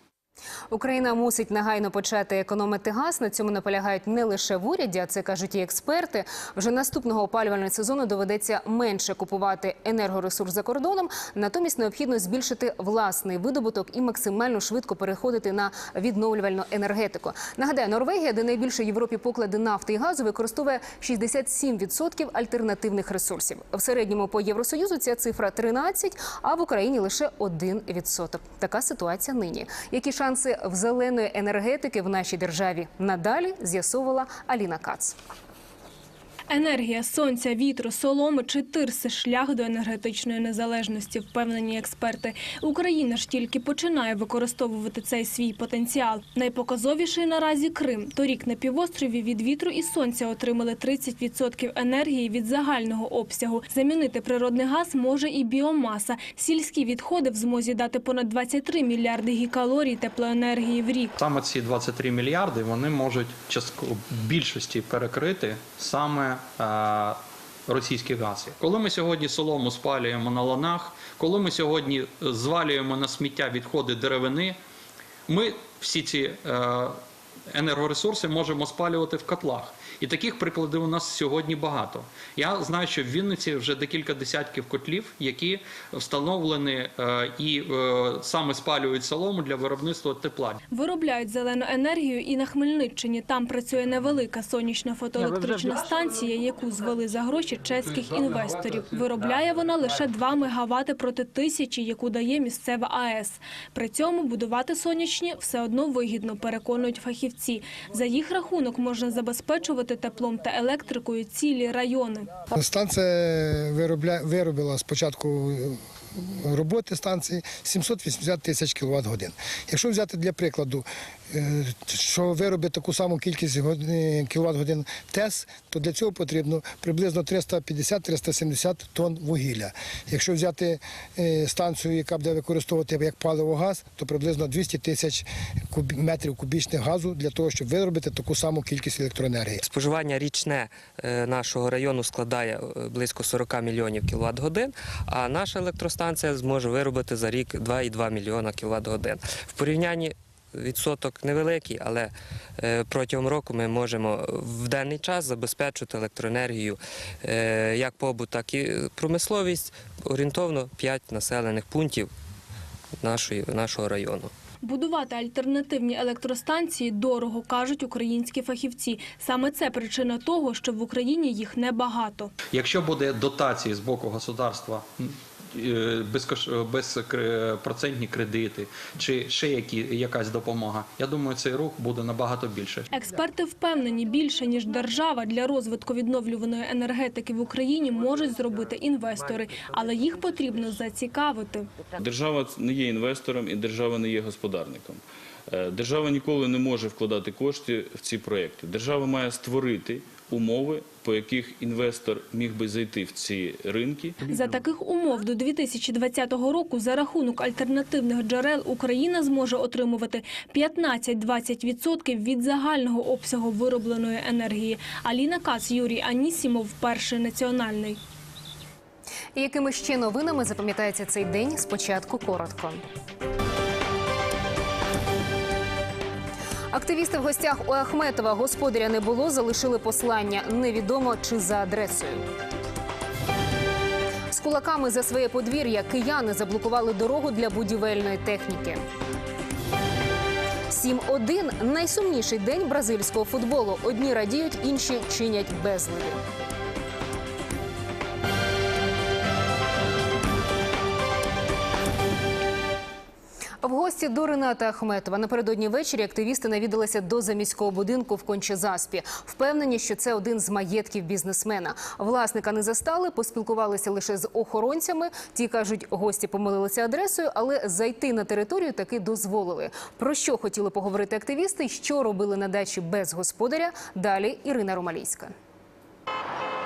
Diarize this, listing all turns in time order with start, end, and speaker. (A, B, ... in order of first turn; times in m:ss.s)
0:00.7-0:35.1 A
0:36.5-1:01.1 B
1:01.2-1:14.6 C
1:15.3-1:30.6 C
1:30.7-1:52.3 B
1:52.5-2:19.6 D
2:19.6-2:42.1 E
2:43.0-2:44.3 E
2:44.6-2:52.3 B
2:52.5-3:02.8 C
3:02.9-3:11.7 B
3:12.0-3:24.2 F
3:24.3-3:38.0 B
3:39.4-3:42.8 A
3:46.7-3:52.2 A
3:54.3-3:58.8 A
4:00.7-4:06.2 A
4:13.6-4:35.3 A